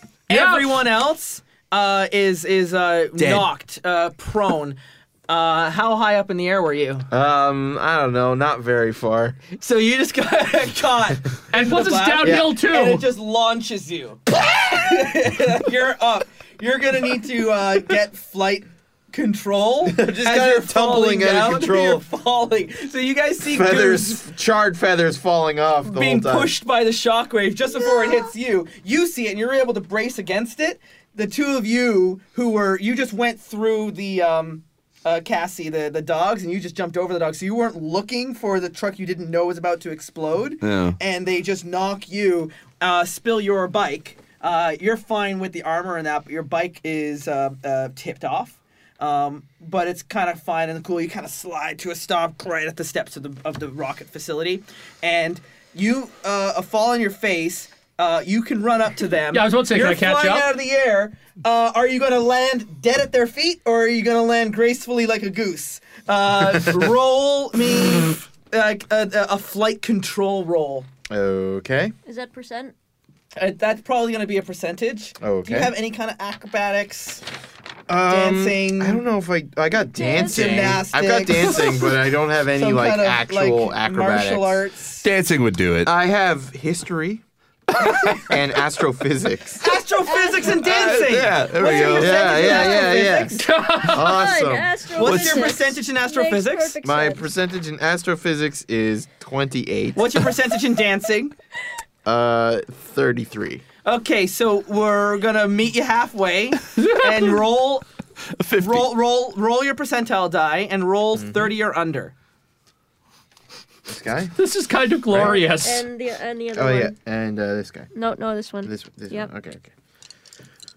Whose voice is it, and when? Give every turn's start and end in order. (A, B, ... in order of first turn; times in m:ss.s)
0:00.3-0:07.1 A
0:00.3-0:00.8 B
0:03.2-0:03.5 C
0:07.1-0:09.4 D
0:09.6-0:24.2 A
0:11.5-0:13.0 B
0:12.2-0:12.5 D
0:19.8-0:22.0 D
0:23.4-0:26.5 D
0:25.8-1:10.9 A
0:40.6-0:41.0 C
0:59.3-1:00.5 B
1:11.1-1:11.9 D
1:12.0-1:12.7 E
1:13.4-1:17.2 A
1:15.2-1:15.7 D
1:17.9-1:24.6 D
1:18.1-1:19.0 A
1:19.9-1:20.8 E
1:20.2-1:21.9 A
1:22.5-1:25.1 A
1:25.0-1:25.9 C
1:25.8-1:27.2 D
1:27.8-1:28.3 C
1:28.2-1:29.6 D
1:29.6-1:33.5 A
1:30.1-1:30.6 E
1:30.6-1:32.2 C
1:31.6-1:33.0 E
1:31.9-1:34.7 D
1:33.3-1:34.2 B
1:33.8-1:37.3 E
1:34.9-1:36.8 A
1:35.0-1:35.6 C
1:36.8-1:40.3 D
1:39.9-1:41.3 A
1:42.0-1:43.6 D
1:43.8-1:47.8 A
1:46.8-1:47.3 B
1:48.3-1:48.9 C
1:48.6-1:52.1 A
1:51.1-1:51.5 D
1:53.9-1:54.3 D
1:54.4-1:55.8 B
1:55.1-1:55.4 D
1:55.1-1:56.9 E
1:56.5-1:57.9 D
1:57.9-1:59.3 E
1:58.6-1:59.7 D